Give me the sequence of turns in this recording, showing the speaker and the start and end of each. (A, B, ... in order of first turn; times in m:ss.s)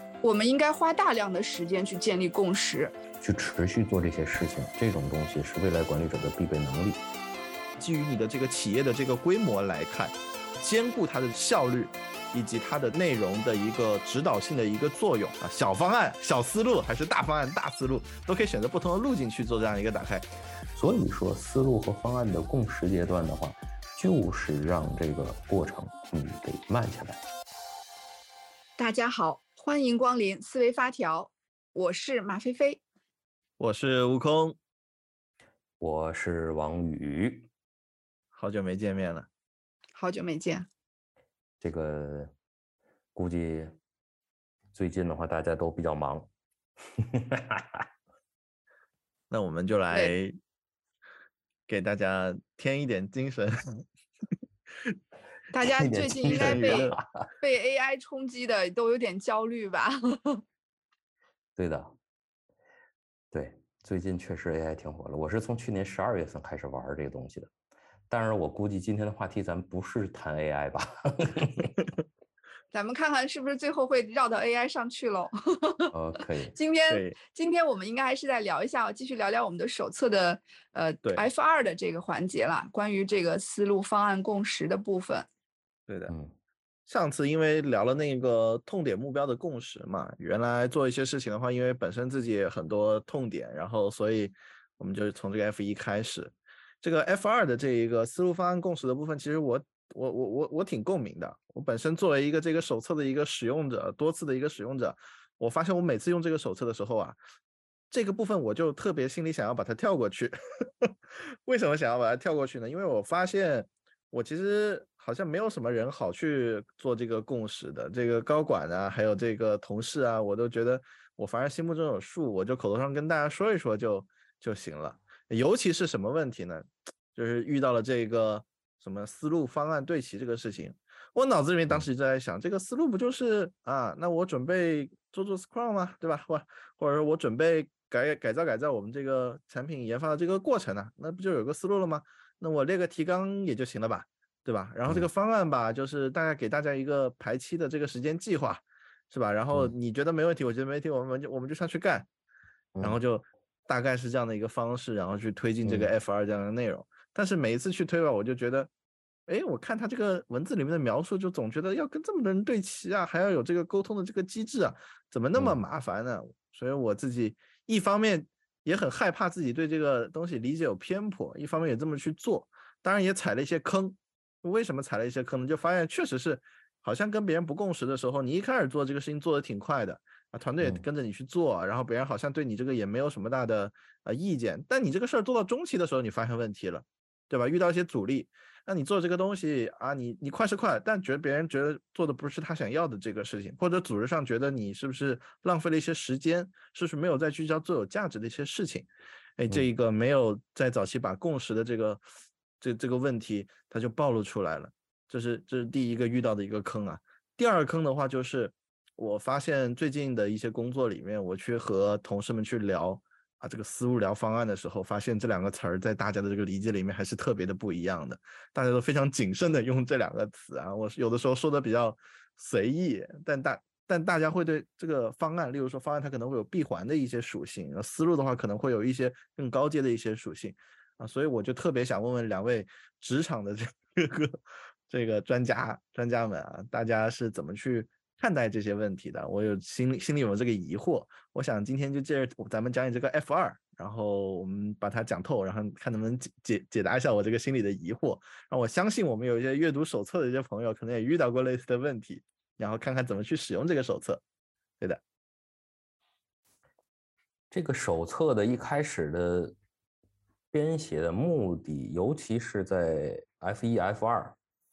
0:00.2-0:03.0 A
0:03.2-0:07.0 B
0:07.8-0:20.3 C
0:20.7-0:27.2 B
0:28.8-0:32.8 A
0:33.6-0:34.6 C
0:35.8-0:37.5 B
0:38.3-0:39.3 C
0:40.0-0:40.7 A
0:41.6-0:42.3 B
0:43.2-0:43.8 B
0:44.7-0:46.3 B
0:47.0-0:47.8 B
0:49.3-0:50.3 C
0:51.7-0:53.8 C
0:55.5-1:00.4 A
0:55.6-0:57.3 B
0:56.2-0:57.0 C
1:01.6-1:01.9 B
1:03.3-1:07.5 B
1:08.1-1:11.8 B
1:12.7-1:15.9 A
1:15.9-1:16.5 B
1:16.5-1:25.3 A
1:16.9-1:17.2 C
1:25.9-1:26.1 C
1:26.1-1:26.3 B
1:26.9-1:47.2 C
1:47.9-1:50.9 C
1:51.4-2:32.1 C
2:32.8-2:38.7 C
2:35.6-2:35.9 B
2:39.3-3:22.0 C
2:45.4-2:45.6 B
3:22.6-4:14.2 C
4:17.5-4:19.6 B
4:20.5-4:24.4 B